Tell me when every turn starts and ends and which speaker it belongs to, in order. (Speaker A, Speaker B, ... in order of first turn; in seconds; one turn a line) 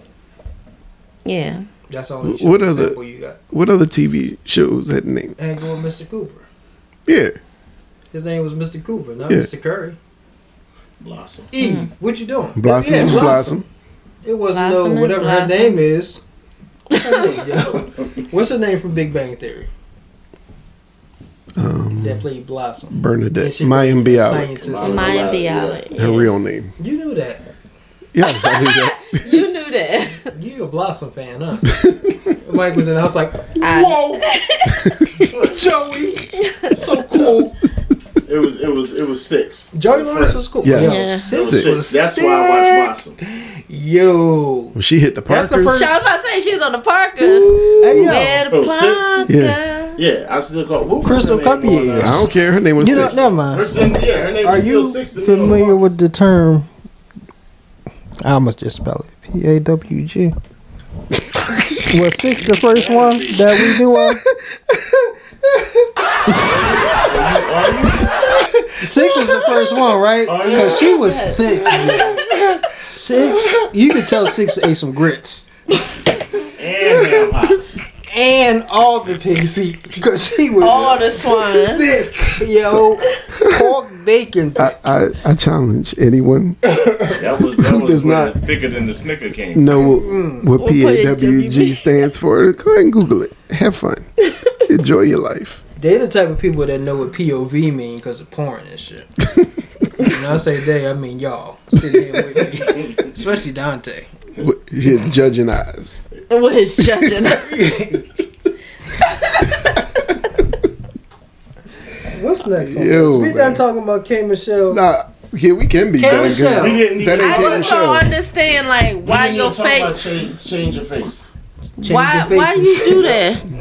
Speaker A: 1.2-1.7
Speaker B: 1.9-3.4
Speaker C: 2.2-3.0
Speaker C: 3.5-5.4
Speaker B: 5.4-6.5
Speaker C: 7.1-7.3
Speaker B: 8.1-10.0
Speaker D: 11.0-11.5
Speaker B: 11.5-13.6
Speaker A: 11.6-11.9
Speaker C: 12.6-13.7
Speaker A: 13.0-13.3
Speaker B: 14.2-16.2
Speaker A: 14.5-15.8
Speaker B: 16.9-19.7
Speaker A: 17.0-17.3
Speaker C: 21.6-22.2
Speaker B: 22.0-25.3
Speaker C: 22.9-24.6
Speaker D: 24.6-26.3
Speaker A: 24.8-26.3
Speaker C: 25.9-26.7
Speaker B: 26.8-27.4
Speaker C: 28.1-29.5
Speaker A: 28.2-30.3
Speaker B: 30.3-31.8
Speaker C: 31.7-32.4
Speaker B: 32.4-34.3
Speaker A: 33.6-34.9
Speaker C: 34.7-35.3
Speaker D: 35.2-35.6
Speaker B: 35.5-37.5
Speaker A: 36.3-37.2
Speaker D: 38.3-40.5
Speaker B: 39.7-44.8
Speaker C: 40.6-41.8
Speaker A: 40.8-41.4
Speaker D: 41.3-43.2
Speaker C: 44.8-45.9
Speaker B: 45.3-46.0
Speaker A: 45.7-50.0
Speaker B: 47.3-48.5
Speaker D: 48.5-49.3
Speaker C: 49.3-49.6
Speaker D: 50.0-52.3
Speaker B: 51.0-53.8
Speaker C: 52.0-53.3
Speaker D: 52.9-55.9
Speaker B: 54.4-56.7
Speaker B: 58.2-60.4
Speaker C: 61.5-61.9
Speaker B: 61.9-64.2
Speaker D: 62.5-63.6
Speaker C: 63.6-65.8
Speaker B: 66.3-66.6
Speaker D: 66.3-68.3
Speaker C: 68.3-69.8
Speaker B: 68.8-75.5
Speaker D: 70.2-71.1
Speaker A: 70.6-72.6
Speaker C: 73.1-74.2
Speaker D: 76.6-77.8
Speaker B: 78.1-84.8
Speaker A: 80.6-81.9
Speaker D: 80.6-81.0
Speaker C: 82.7-83.7
Speaker C: 84.6-88.3
Speaker D: 87.1-89.8
Speaker C: 89.5-94.1
Speaker B: 89.7-90.5
Speaker A: 90.6-91.9
Speaker A: 94.3-94.5
Speaker C: 94.7-95.6
Speaker B: 95.8-99.1
Speaker B: 100.0-104.1
Speaker C: 104.4-106.0
Speaker A: 106.3-108.0
Speaker C: 106.8-107.4
Speaker B: 107.5-108.0
Speaker A: 109.0-109.6
Speaker C: 109.6-110.1
Speaker B: 112.0-114.8
Speaker C: 112.6-113.6
Speaker C: 114.7-118.1
Speaker B: 116.0-116.9
Speaker D: 116.1-117.9
Speaker A: 117.1-120.1
Speaker D: 119.0-121.2
Speaker B: 121.8-123.2
Speaker A: 121.8-123.4